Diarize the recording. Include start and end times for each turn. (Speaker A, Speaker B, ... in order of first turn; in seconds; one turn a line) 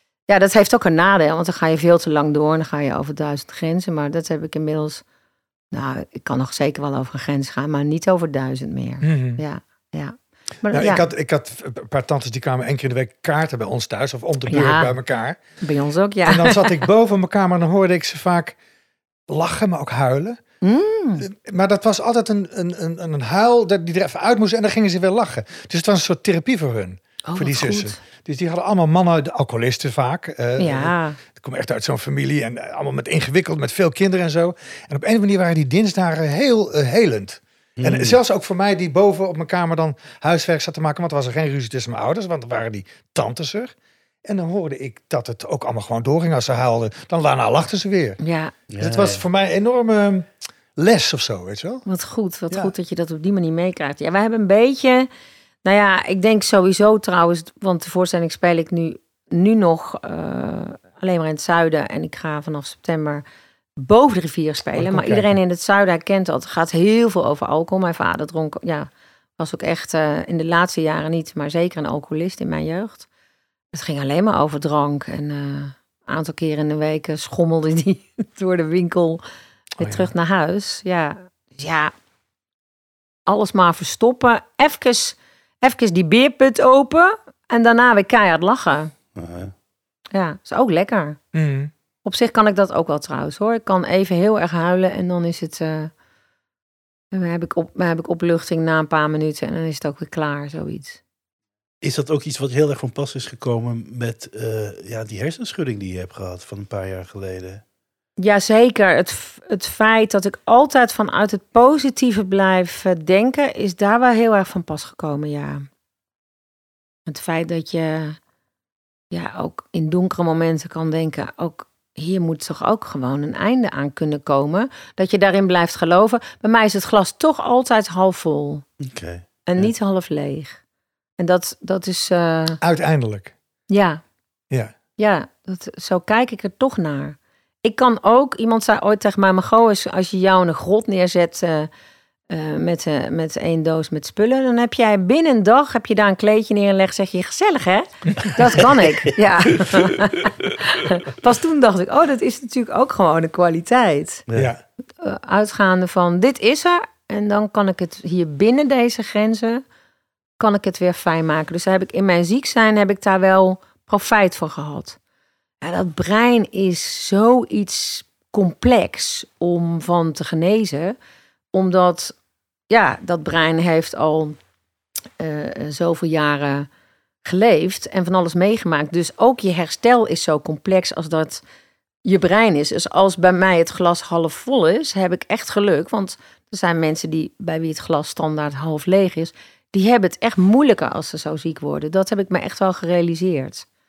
Speaker A: 0.3-5.0
Speaker A: 5.7-11.1
Speaker B: 9.0-9.4
Speaker B: 10.7-15.4
Speaker A: 14.5-14.9
Speaker A: 15.6-16.9
Speaker B: 16.3-18.6
Speaker B: 19.3-20.4
Speaker A: 20.6-21.3
Speaker B: 21.2-43.7
Speaker A: 27.3-28.0
Speaker A: 30.6-31.2
Speaker C: 37.8-38.2
Speaker B: 44.2-48.2
Speaker A: 48.2-48.5
Speaker C: 48.7-49.2
Speaker B: 48.8-51.8
Speaker A: 51.9-55.1
Speaker A: 55.6-63.2
Speaker A: 63.8-73.1
Speaker B: 64.8-65.3
Speaker A: 73.7-79.2
Speaker A: 79.8-81.9
Speaker B: 79.8-80.1
Speaker A: 83.3-88.9
Speaker C: 89.2-89.5
Speaker A: 90.1-91.2
Speaker B: 91.3-91.7
Speaker A: 92.0-95.9
Speaker A: 97.1-101.0
Speaker C: 101.8-107.6
Speaker A: 108.2-115.7
Speaker A: 117.1-118.2
Speaker A: 119.1-128.7
Speaker C: 128.8-129.2
Speaker A: 129.5-130.6
Speaker A: 131.2-132.6
Speaker B: 132.6-133.3
Speaker A: 133.7-134.0
Speaker A: 135.0-141.7
Speaker A: 142.3-154.2
Speaker A: 155.0-159.6
Speaker A: 160.4-165.0
Speaker A: 165.6-171.0
Speaker A: 171.5-172.2
Speaker A: 172.7-174.4
Speaker A: 175.2-176.7
Speaker A: 177.2-181.4
Speaker A: 182.1-193.7